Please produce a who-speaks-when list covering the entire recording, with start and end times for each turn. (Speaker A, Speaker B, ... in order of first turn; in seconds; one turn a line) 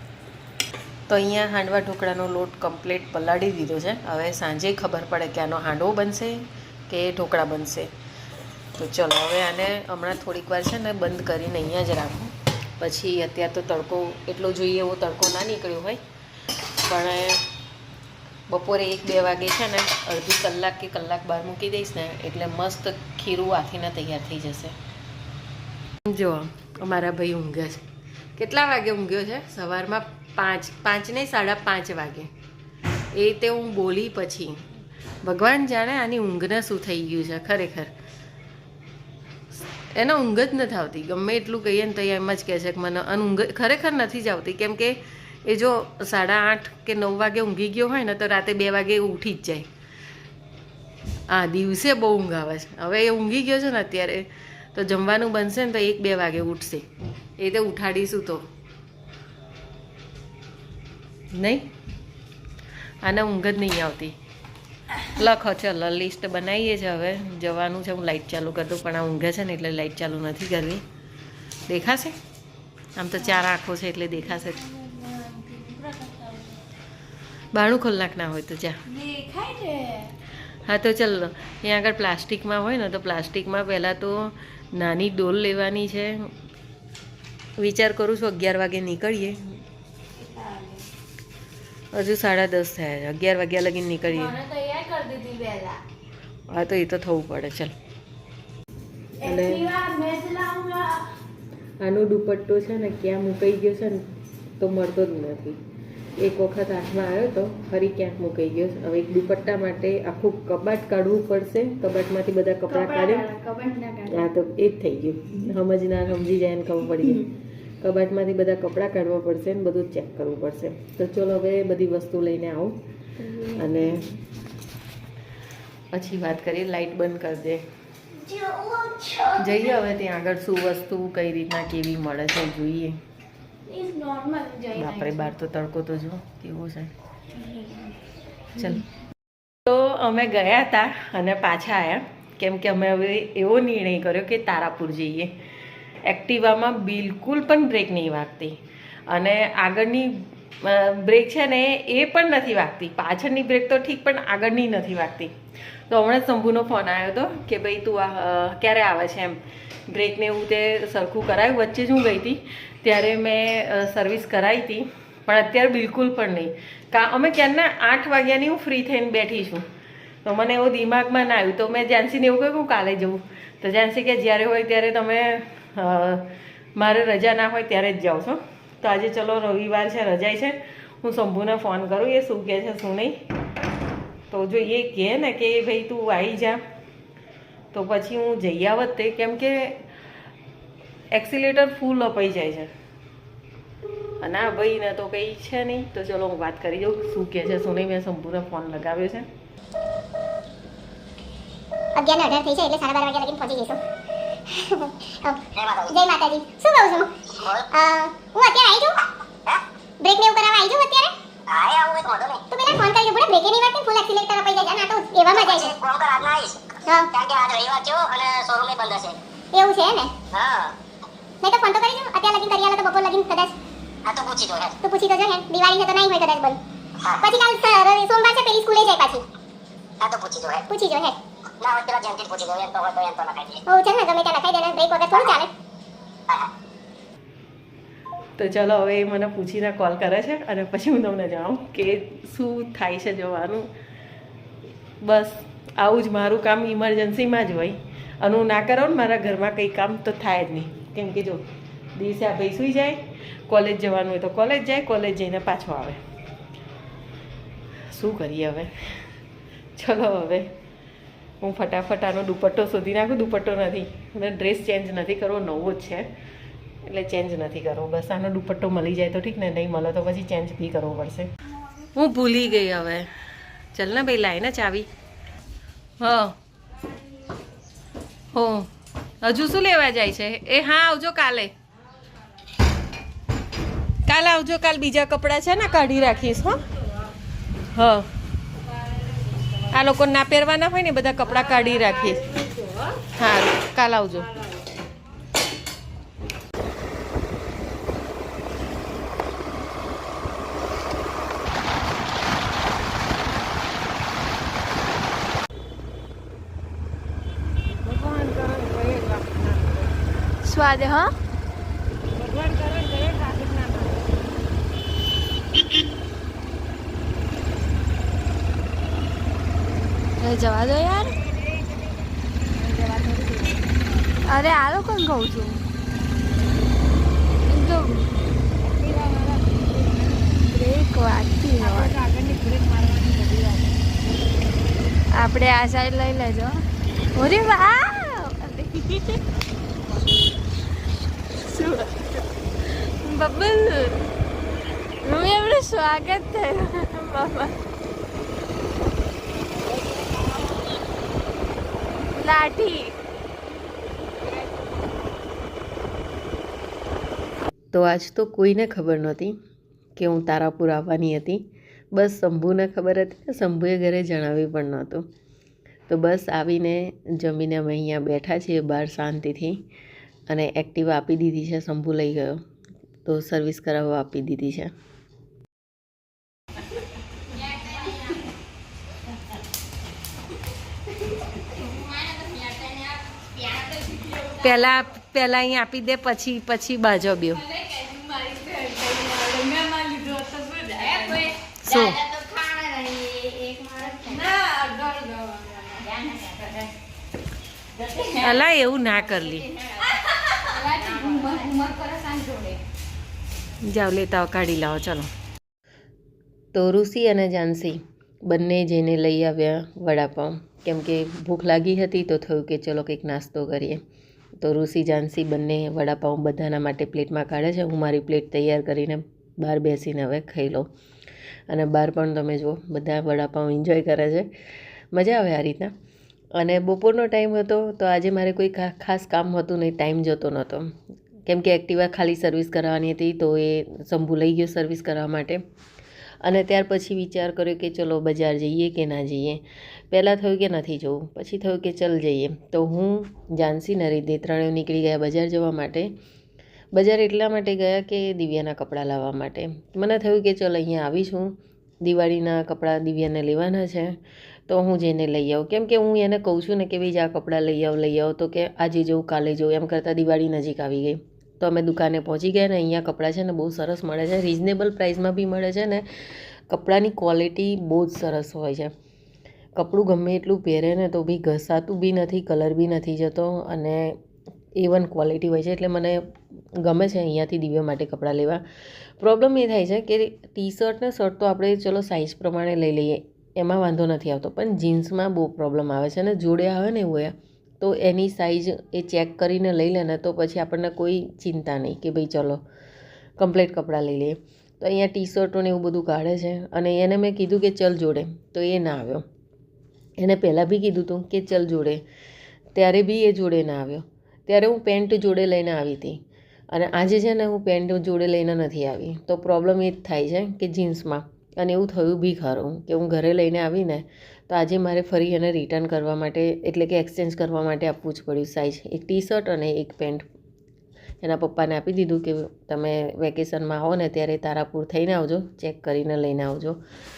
Speaker A: 1.1-7.9
Speaker A: 8.8-16.0
Speaker A: 16.8-17.5
Speaker A: 18.5-24.8
Speaker A: 26.1-27.8
Speaker A: 28.4-32.3
Speaker A: 33.1-34.6
Speaker A: 35.2-37.9
Speaker A: 39.9-49.7
Speaker A: 51.3-56.9
Speaker A: 57.4-58.4
Speaker A: 61.3-61.7
Speaker A: 63.0-64.2
Speaker A: 65.1-70.8
Speaker A: 71.7-72.2
Speaker A: 73.0-74.6
Speaker B: 73.2-73.5
Speaker B: 74.3-76.6
Speaker A: 77.5-78.8
Speaker B: 78.9-80.1
Speaker A: 80.7-86.3
Speaker A: 87.6-89.4
Speaker B: 90.2-90.8
Speaker A: 91.9-94.4
Speaker B: 94.1-95.8
Speaker A: 96.5-97.7
Speaker B: 99.2-101.1
Speaker A: 99.2-99.6
Speaker A: 101.8-104.0
Speaker A: 104.6-105.6
Speaker A: 106.2-113.3
Speaker B: 112.7-114.2
Speaker A: 114.0-117.3
Speaker A: 117.8-122.8
Speaker B: 123.2-123.9
Speaker A: 123.5-124.1
Speaker A: 125.9-127.6
Speaker B: 128.2-129.7
Speaker A: 129.4-133.0
Speaker B: 133.7-135.2
Speaker A: 134.8-136.9
Speaker B: 137.4-137.9
Speaker A: 138.6-138.8
Speaker A: 139.7-145.3
Speaker A: 146.1-148.6
Speaker A: 149.1-155.3
Speaker A: 155.9-169.7
Speaker A: 170.3-183.2
Speaker A: 184.3-186.6
Speaker A: 187.7-189.8
Speaker A: 191.1-192.7
Speaker A: 194.2-199.3
Speaker C: 201.9-203.8
Speaker C: 204.5-207.1
Speaker C: 207.7-209.0
Speaker C: 210.0-211.1
Speaker D: 211.5-212.4
Speaker C: 212.5-215.8
Speaker D: 215.6-216.6
Speaker C: 216.9-217.1
Speaker D: 217.1-219.2
Speaker C: 219.5-220.1
Speaker D: 220.3-220.7
Speaker C: 221.4-223.6
Speaker D: 224.1-224.7
Speaker C: 224.8-226.6
Speaker C: 227.2-229.2
Speaker D: 230.0-230.6
Speaker C: 230.7-231.2
Speaker D: 231.6-233.6
Speaker C: 233.7-235.5
Speaker A: 238.4-243.7
Speaker A: 245.0-251.4
Speaker A: 252.0-256.0
Speaker A: 257.9-259.0
Speaker A: 259.8-260.5
Speaker A: 261.4-266.1
Speaker A: 266.9-271.3
Speaker A: 271.9-273.1
Speaker A: 273.7-274.9
Speaker A: 276.0-276.4
Speaker A: 278.3-278.7
Speaker A: 279.2-281.5
Speaker A: 284.1-286.6
Speaker A: 287.7-288.1
Speaker A: 289.7-292.3
Speaker A: 293.2-294.3
Speaker A: 307.8-309.9
Speaker B: 310.4-311.1
Speaker A: 312.1-314.1
Speaker B: 320.2-321.2
Speaker A: 322.7-323.5
Speaker B: 324.3-325.6
Speaker B: 327.5-328.1
Speaker A: 329.3-329.9
Speaker B: 330.4-332.0
Speaker A: 331.6-333.6
Speaker B: 335.1-339.2
Speaker B: 341.4-342.2
Speaker B: 343.0-344.0
Speaker B: 345.0-347.6
Speaker B: 352.1-352.9
Speaker A: 357.7-359.4
Speaker A: 360.0-365.1
Speaker A: 365.9-369.6
Speaker A: 370.3-372.4
Speaker A: 373.1-374.7
Speaker B: 384.0-384.4
Speaker A: 384.4-387.4
Speaker B: 387.3-391.4
Speaker A: 391.6-392.0
Speaker B: 394.0-395.9
Speaker B: 397.9-398.3
Speaker A: 398.2-399.5
Speaker B: 400.0-402.6
Speaker A: 403.6-405.1
Speaker A: 406.5-413.8
Speaker A: 414.4-420.7
Speaker A: 421.5-424.3
Speaker A: 424.9-425.7
Speaker A: 426.4-430.8
Speaker A: 431.3-435.4
Speaker A: 436.2-445.9
Speaker A: 446.7-468.7
Speaker A: 469.6-474.0
Speaker A: 474.6-476.0
Speaker A: 476.6-478.4
Speaker A: 479.0-492.4
Speaker A: 493.2-499.0
Speaker A: 500.0-501.8
Speaker A: 502.6-520.1
Speaker A: 521.0-526.6